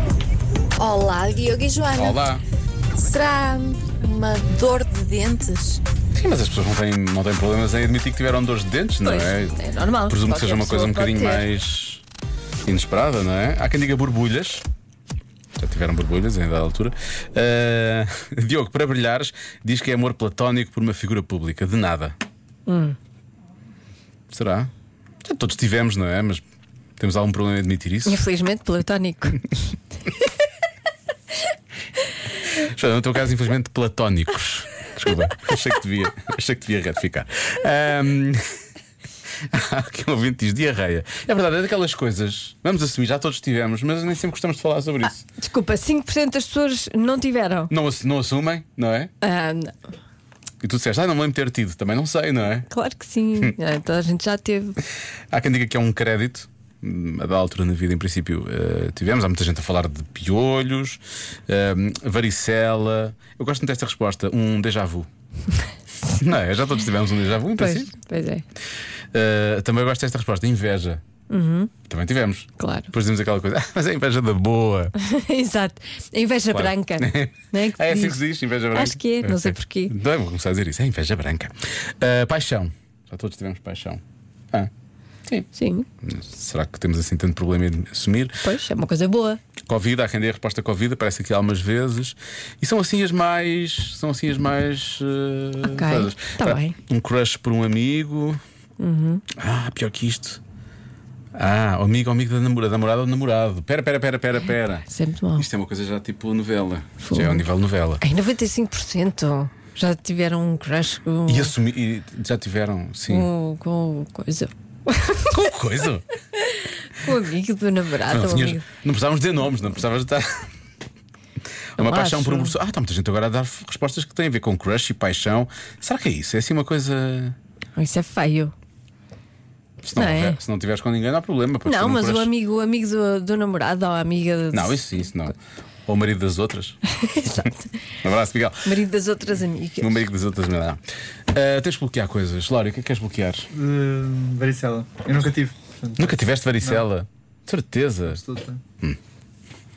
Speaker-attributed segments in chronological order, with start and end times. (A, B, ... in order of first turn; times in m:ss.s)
0:00.8-0:02.2 A
0:01.9-0:02.4 B
0:03.0-0:05.8 A
0:06.1-0:12.0 B
0:09.0-0:11.5 C
0:12.6-0:14.6 B
0:15.6-0:22.1 B
0:22.7-0:23.0 C
0:24.3-0:24.7 B
0:25.2-0:26.4 B
0:27.0-0:28.2 B
0:28.0-0:29.6 C
0:32.5-0:38.4 B
0:39.5-0:45.2 B
0:45.4-0:47.7 C
0:47.7-0:49.1 B
0:49.2-0:49.9 C
0:50.6-0:52.7 B
0:52.7-0:54.8 C
0:55.3-1:05.1 B
1:06.1-1:07.9 B
1:07.6-1:08.4 C
1:09.1-1:11.0 B
1:11.3-1:11.7 C
1:11.9-1:14.9 B
1:12.6-1:12.9 C
1:15.0-1:19.9 C
1:16.5-1:24.0 B
1:25.5-1:25.9 C
1:26.0-1:28.4 B
1:28.4-1:29.4 C
1:29.7-1:38.4 B
1:35.6-1:36.8 C
1:38.8-1:39.2 C
1:39.3-1:40.4 B
1:41.3-1:48.0 B
1:44.9-1:45.4 C
1:47.0-1:47.4 C
1:48.0-1:51.5 C
1:51.3-1:53.3 B
1:53.1-1:55.4 C
1:55.3-1:56.0 B
1:56.4-1:58.6 C
1:58.1-2:00.5 B
2:01.8-2:07.4 B
2:01.8-2:02.5 C
2:07.8-2:08.5 C
2:09.8-2:12.3 B
2:09.9-2:10.4 C
2:11.6-2:15.0 C
2:14.5-2:15.3 B
2:15.9-2:17.5 B
2:16.9-2:17.7 C
2:18.0-2:18.7 B
2:18.6-2:20.1 C
2:19.8-2:20.8 B
2:21.3-2:23.5 B
2:23.5-2:26.8 D
2:26.0-2:28.2 B
2:28.1-2:28.6 D